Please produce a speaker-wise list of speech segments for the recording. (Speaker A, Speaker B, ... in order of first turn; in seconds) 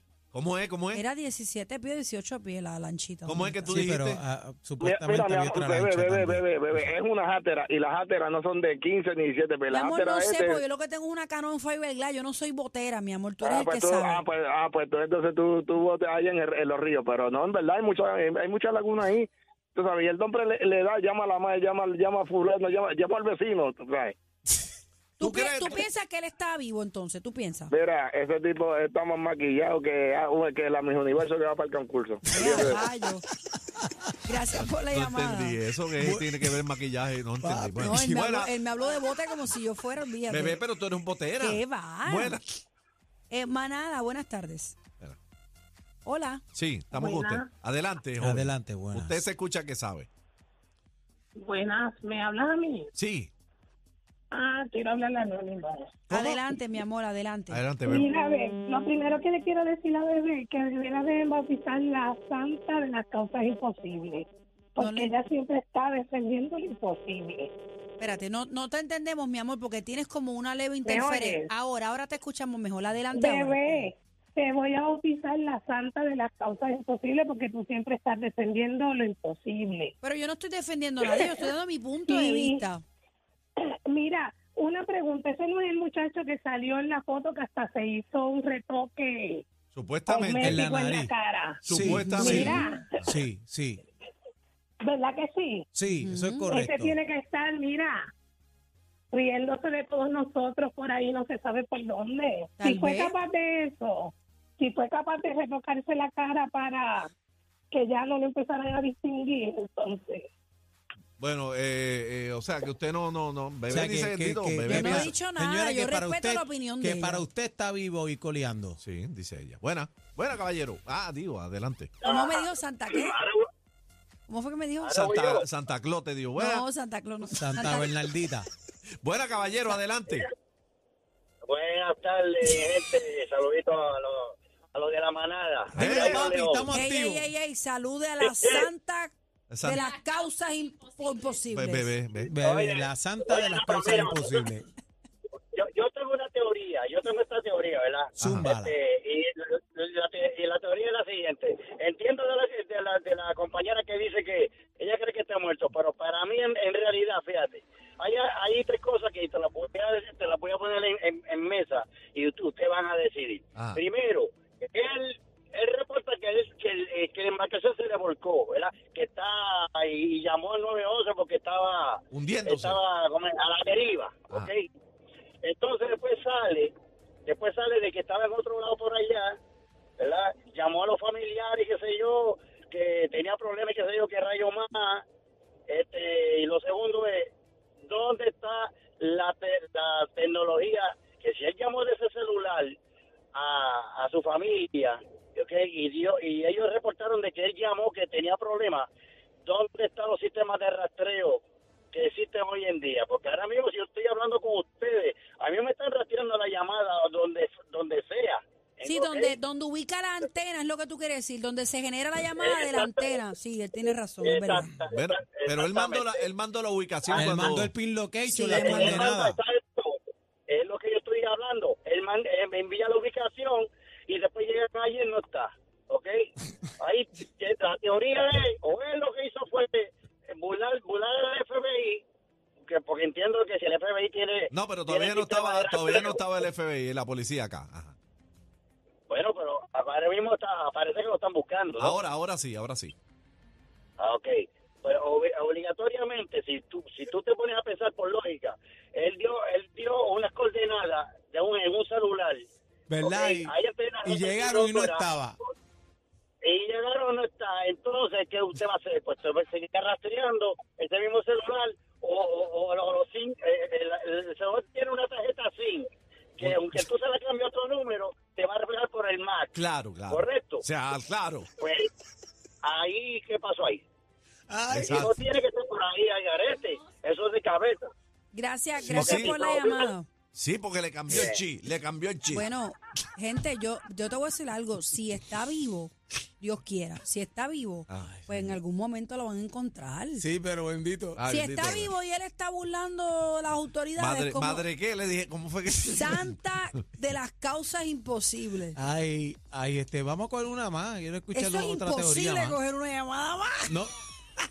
Speaker A: 0.3-1.0, 3.2-4.2, 25.2-25.8, 34.9-38.5, 40.3-42.6, 46.5-50.1, 53.0-53.3, 57.5-58.1, 89.7-90.7, 91.7-93.1, 111.2-115.1, 118.8-121.9, 124.9-126.6, 129.0-130.3, 135.7-136.2, 139.5-139.8, 141.5-142.3, 148.2-148.5, 163.6-163.8, 172.1-172.8, 214.9-217.7, 234.5-237.9, 241.8-242.9, 269.5-271.5, 274.7-275.1, 278.8-279.5, 280.3-282.4, 287.9-288.6, 291.2-291.9, 294.0-296.4
Speaker B: 0.9-3.7, 9.7-14.2, 25.2-27.7, 32.3-33.2, 34.2-35.6, 37.8-40.6, 41.4-42.4, 43.3-44.8, 46.0-46.4, 56.1-57.6, 64.8-65.1, 68.0-73.9, 80.0-82.8, 96.0-96.5, 102.6-103.1, 114.7-117.2, 122.0-123.2, 124.3-125.0, 126.3-128.0, 136.7-141.9, 208.8-214.7, 218.3-219.0, 278.3-280.1, 282.3-290.2, 291.2-294.7, 295.9-298.8, 301.3-303.8
Speaker C: 3.6-6.9, 36.0-36.5, 37.4-38.1, 48.2-49.2, 56.1-56.4, 90.4-91.1, 91.6-93.8, 95.7-97.0, 113.7-118.8, 127.3-128.5, 135.7-137.3, 142.3-144.7, 148.2-148.8, 217.1-219.4, 252.9-255.4, 274.5-275.0, 290.1-291.2, 298.8-302.6
Speaker D: 4.8-10.6, 13.4-24.1, 27.7-32.8
Speaker E: 46.9-47.5, 51.4-52.9, 54.3-56.0, 57.8-67.5, 70.8-71.5, 73.1-79.9, 81.0-81.3, 82.1-82.6, 83.9-89.4, 90.1-93.0, 94.8-95.7, 96.5-98.1, 99.1-107.1, 107.7-110.3
Speaker F: 122.0-123.5, 124.8-125.4, 131.5-136.7, 138.2-138.6, 142.4-144.4, 145.5-174.7, 175.4-176.7, 177.2-179.4, 180.0-185.0, 185.7-187.3, 187.9-192.8, 193.3-198.9, 199.4-201.4, 201.9-209.3, 212.4-213.2, 214.2-216.2, 217.1-217.4, 218.5-220.0, 220.5-232.0, 232.6-236.3, 239.1-242.0, 244.0-252.4, 253.0-255.1, 256.4-269.5, 270.1-270.6, 271.6-271.9, 272.6-273.8, 274.7-277.9, 278.9-279.9, 281.1-281.4